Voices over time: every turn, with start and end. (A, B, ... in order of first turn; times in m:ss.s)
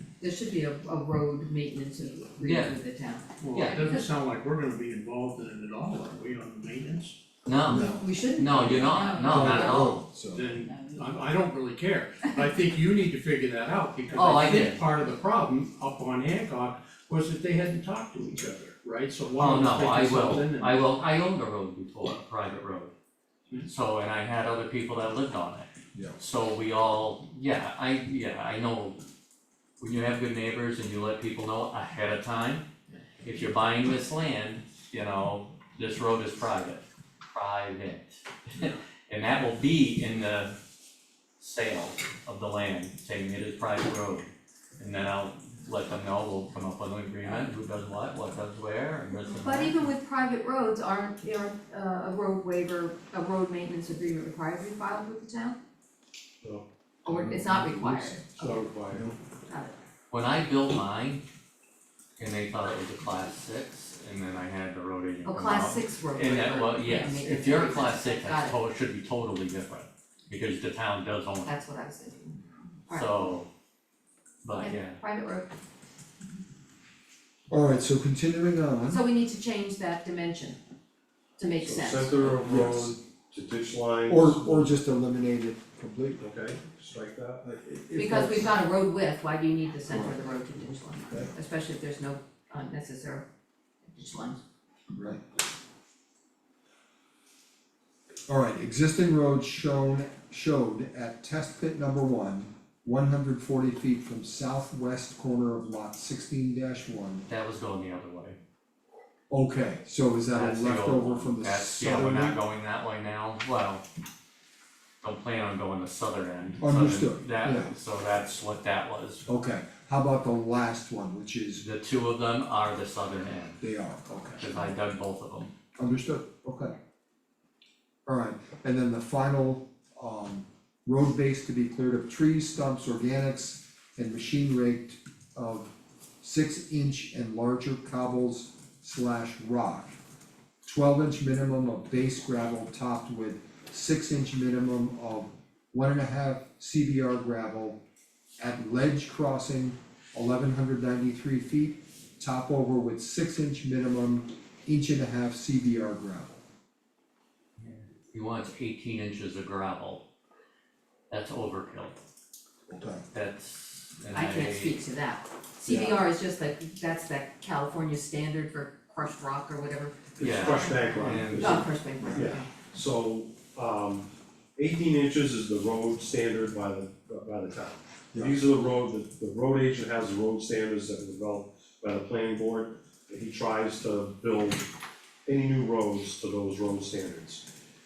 0:00.2-0:04.0 A
0:02.4-0:02.8 B
0:03.4-0:07.2 C
0:03.5-0:03.8 B
0:07.4-0:10.0 B
0:07.7-0:08.1 D
0:07.7-0:09.9 A
0:09.2-0:10.6 D
0:10.2-0:20.8 C
0:14.1-0:14.8 B
0:19.4-0:22.9 B
0:23.6-0:29.0 B
0:29.8-0:32.7 B
0:33.2-0:40.6 B
0:41.4-0:44.3 B
0:44.8-0:49.8 B
0:49.3-0:55.6 A
0:57.0-0:58.7 A
0:57.0-0:59.1 D
0:58.4-0:59.1 E
0:59.5-0:59.8 A
1:00.1-1:01.2 B
1:02.2-1:11.5 B
1:05.2-1:08.6 A
1:11.4-1:13.2 A
1:12.9-1:13.5 B
1:14.4-1:15.0 B
1:14.5-1:15.5 A
1:17.5-1:19.0 D
1:18.9-1:20.6 A
1:21.4-1:22.4 A
1:21.6-1:24.7 E
1:22.3-1:23.0 D
1:24.1-1:26.2 D
1:26.2-1:27.5 E
1:27.4-1:28.5 D
1:27.9-1:33.2 A
1:29.9-1:30.2 D
1:33.8-1:34.4 A
1:34.9-1:35.2 D
1:38.3-1:47.2 D
1:47.3-1:48.4 B
1:49.3-1:52.4 D
1:50.3-1:53.8 B
1:55.0-1:59.2 B
1:56.6-1:57.7 D
1:59.3-2:01.6 D
2:01.6-2:03.6 B
2:03.6-2:04.7 D
2:04.4-2:05.5 B
2:05.8-2:06.7 D
2:08.0-2:20.0 D
2:20.6-2:27.8 D
2:28.4-2:36.4 D
2:37.6-2:40.0 B
2:41.1-2:42.0 B
2:42.7-2:43.0 D
2:43.1-2:44.8 B
2:44.1-2:52.5 A
2:45.6-2:46.0 D
2:50.2-3:04.7 E
2:50.2-2:51.7 B
2:51.3-2:52.4 D
2:58.1-2:58.4 D
3:05.2-3:07.4 E